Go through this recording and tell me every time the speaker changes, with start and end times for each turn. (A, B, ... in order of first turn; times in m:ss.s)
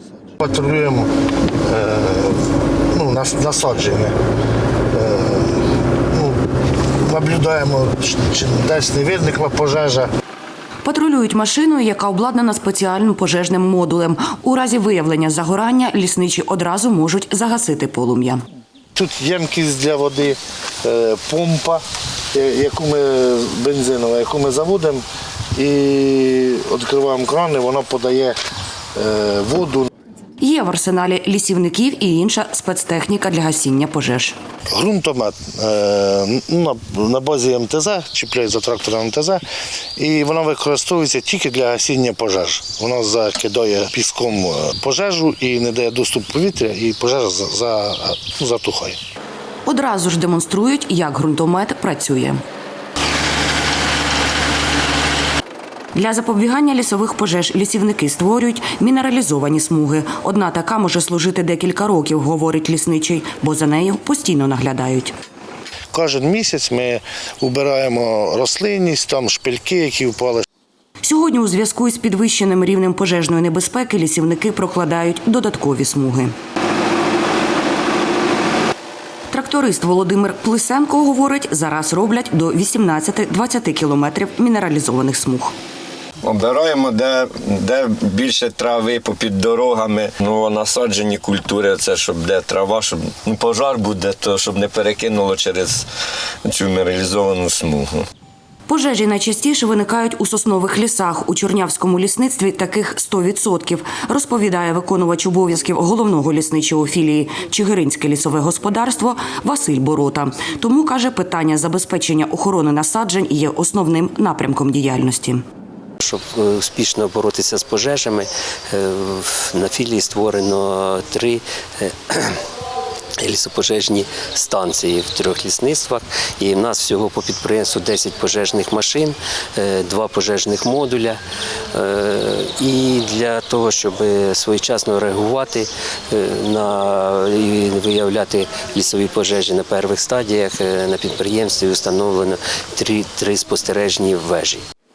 0:00.4-0:01.1 A
0:01.6-0:04.1 A
0:04.9-0:06.4 A
0:07.0-0:10.1 A
0:10.8-0:18.4 B
0:18.9-0:21.8 A
0:22.3-0:25.0 A
0:25.5-0:28.4 A
0:28.9-0:29.9 A
0:30.4-0:34.4 B
0:34.7-0:39.4 A
0:40.0-0:49.0 A
0:49.6-0:52.4 B
0:55.9-1:05.1 B
1:05.9-1:10.4 A
1:11.0-1:16.3 B
1:19.3-1:25.5 B
1:26.2-1:35.9 C
1:36.4-1:38.0 C
1:38.7-1:55.4 B
1:56.0-2:02.4 D
2:03.2-2:11.2 D
2:11.7-2:24.6 D